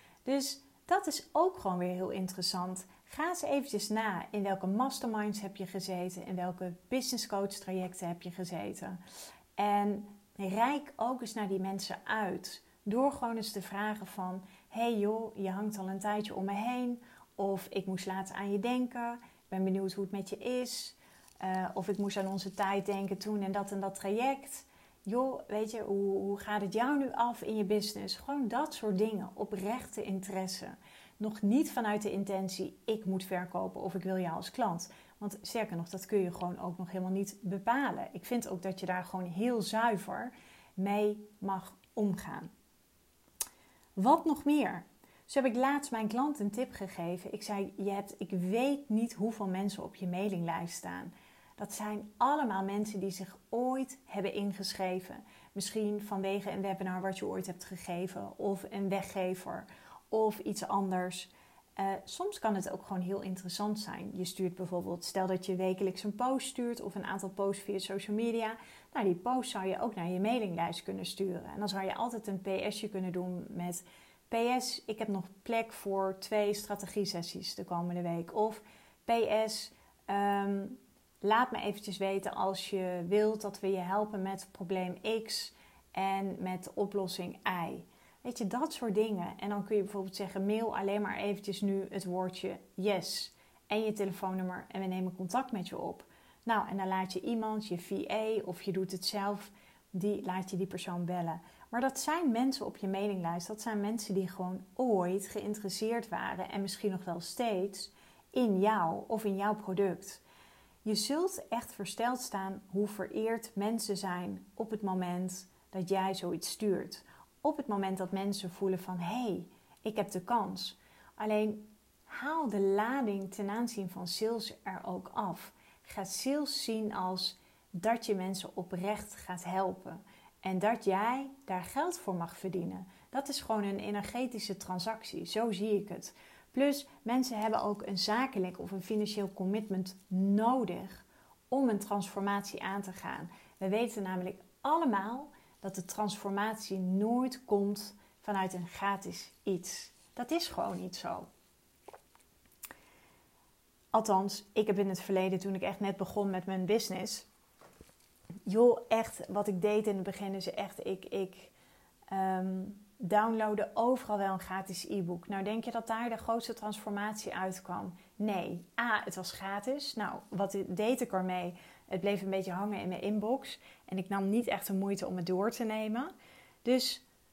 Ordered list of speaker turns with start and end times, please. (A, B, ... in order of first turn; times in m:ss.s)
0:00.2-0:09.0 A
0:09.6-0:42.5 A
0:44.0-1:50.2 A
1:50.8-2:31.3 A
2:33.9-2:37.3 A
2:38.5-2:41.5 A
2:42.1-2:56.1 A
2:56.6-2:57.0 A